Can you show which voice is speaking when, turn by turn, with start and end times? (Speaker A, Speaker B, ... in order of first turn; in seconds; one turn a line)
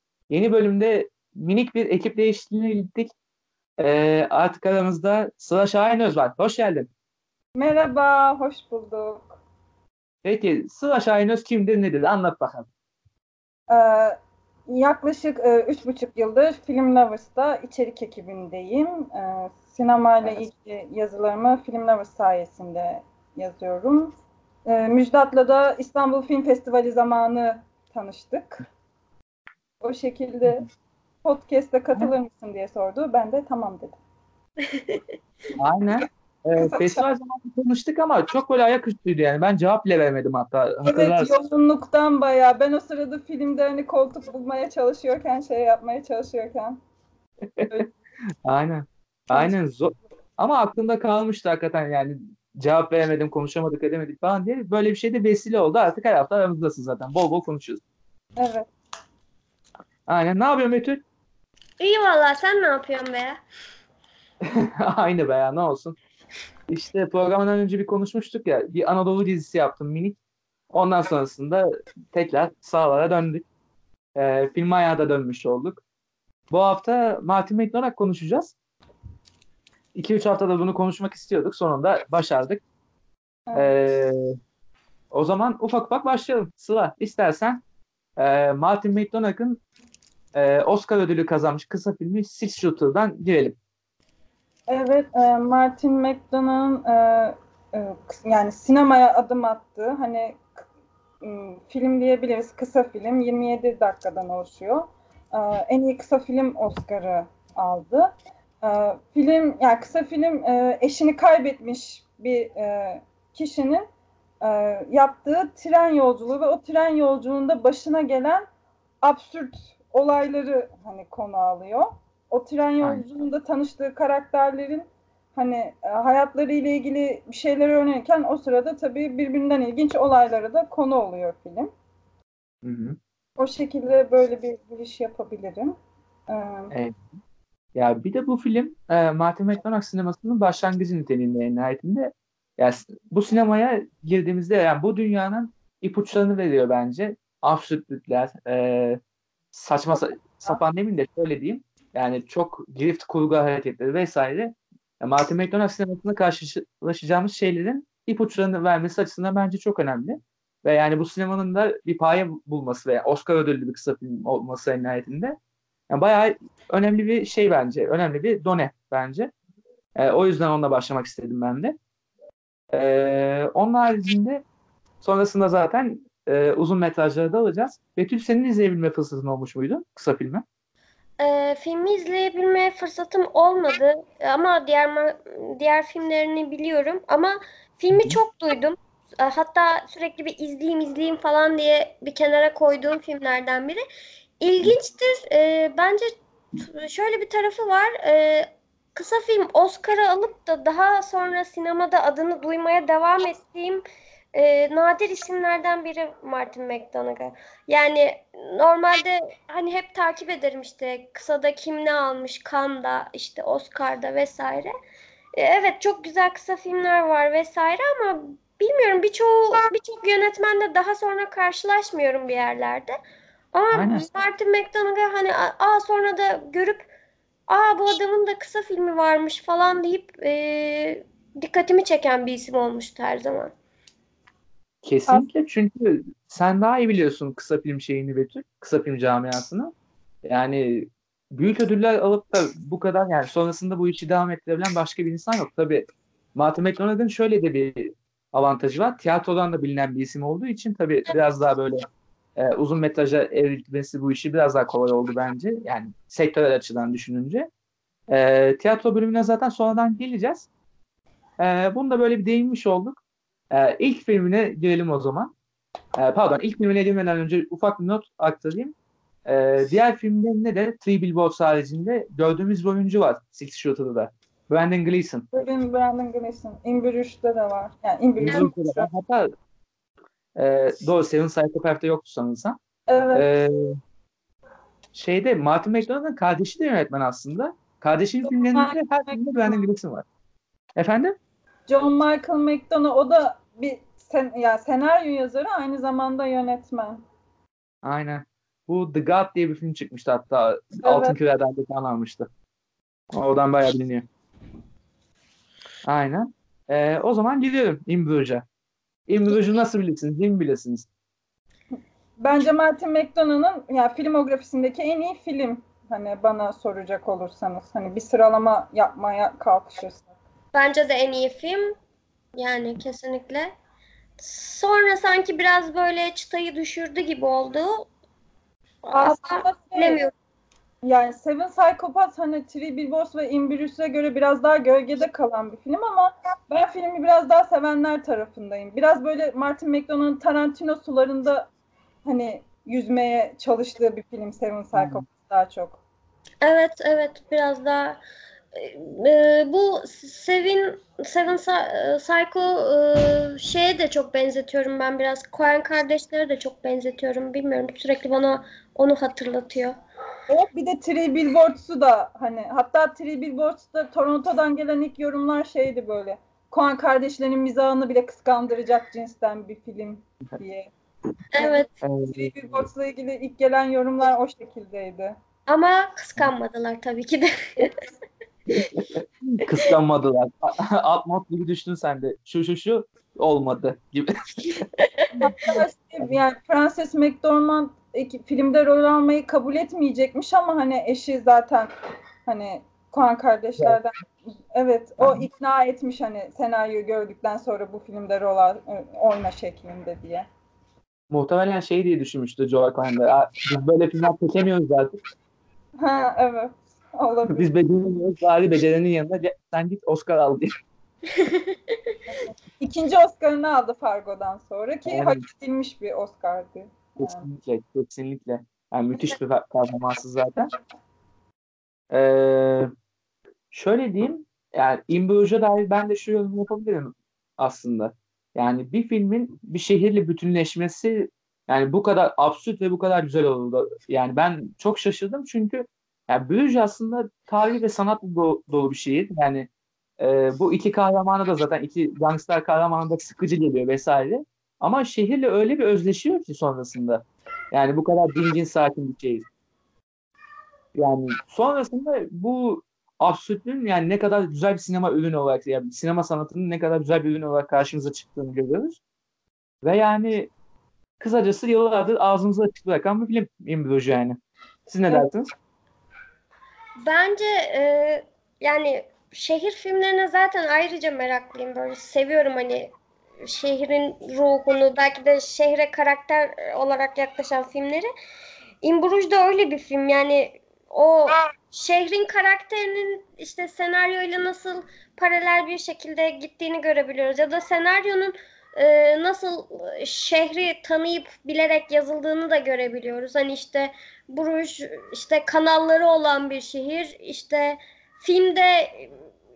Speaker A: 0.3-3.1
Speaker A: 3.8-6.9
Speaker B: 7.6-9.4
Speaker A: 10.2-12.7
Speaker B: 13.7-14.2
Speaker B: 14.7-24.1
Speaker B: 24.7-28.6
Speaker B: 29.8-30.7
Speaker B: 31.2-34.0
Speaker C: 34.7-35.0
Speaker A: 35.6-41.3
Speaker B: 36.6-37.1
Speaker B: 40.9-46.8
Speaker A: 48.4-57.8
Speaker B: 58.4-58.7
Speaker A: 60.1-61.0
Speaker C: 61.8-63.4
Speaker A: 64.5-66.0
Speaker A: 66.7-70.2
Speaker A: 70.7-73.5
Speaker A: 74.2-75.8
Speaker A: 76.5-78.5
Speaker A: 80.0-82.6
Speaker B: 83.5-83.8
Speaker A: 83.5-84.4
Speaker A: 85.1-87.6
Speaker A: 88.2-89.6
Speaker A: 90.3-93.6
Speaker B: 94.7-100.6
Speaker B: 101.2-113.9
Speaker B: 114.4-118.5
Speaker B: 119.0-131.7
Speaker A: 132.6-133.0
Speaker B: 133.4-135.8
Speaker B: 136.3-136.7
Speaker A: 136.7-137.0
Speaker A: 137.8-149.0
Speaker A: 149.5-165.4
Speaker B: 149.9-150.6
Speaker A: 165.9-169.3
Speaker A: 170.0-171.8
Speaker A: 172.7-174.4
Speaker A: 175.0-180.4
Speaker C: 181.2-193.8
Speaker A: 187.9-188.2
Speaker C: 194.4-203.8
Speaker C: 204.3-214.7
Speaker C: 215.3-223.0
Speaker C: 223.5-226.9
Speaker A: 223.7-224.1
Speaker C: 227.5-233.5
Speaker A: 234.8-239.7
Speaker A: 240.3-251.9
Speaker A: 252.4-257.5
Speaker A: 258.1-260.5
Speaker A: 261.4-265.3
Speaker A: 266.0-268.7
Speaker A: 269.3-275.3
Speaker B: 275.3-278.9
Speaker A: 278.2-279.3
Speaker A: 280.4-282.6
Speaker B: 282.9-283.3
Speaker A: 283.1-283.8
Speaker A: 284.9-290.1
Speaker B: 288.4-289.6
Speaker A: 290.8-291.2
Speaker B: 291.7-297.0
Speaker A: 297.8-302.3
Speaker B: 300.8-301.2
Speaker A: 303.1-304.1
Speaker A: 305.9-308.4
Speaker A: 309.1-310.9
Speaker B: 312.2-320.1
Speaker C: 320.5-321.8
Speaker C: 322.4-323.5
Speaker C: 324.2-327.9
Speaker C: 328.9-330.1
Speaker B: 328.9-330.0
Speaker B: 330.8-341.5
Speaker B: 342.1-345.8
Speaker A: 344.8-345.0
Speaker C: 346.4-348.0
Speaker C: 348.5-359.8
Speaker B: 360.3-370.7
Speaker C: 371.3-371.7
Speaker B: 371.4-375.2
Speaker A: 371.8-372.7
Speaker C: 375.5-377.8
Speaker A: 378.5-384.7
Speaker C: 384.8-385.5
Speaker B: 385.2-391.7
Speaker B: 392.3-394.0
Speaker B: 394.5-400.3
Speaker A: 395.0-395.3
Speaker A: 401.1-405.0
Speaker B: 405.8-407.5
Speaker A: 407.3-410.6
Speaker C: 411.1-412.0
Speaker B: 412.1-417.3
Speaker A: 414.9-415.2
Speaker A: 417.0-420.5
Speaker A: 421.9-422.7
Speaker A: 423.5-439.5
Speaker A: 440.0-449.3
Speaker A: 450.8-458.8
Speaker A: 459.6-460.3
Speaker A: 461.0-465.3
Speaker C: 466.9-477.9
Speaker C: 478.6-499.0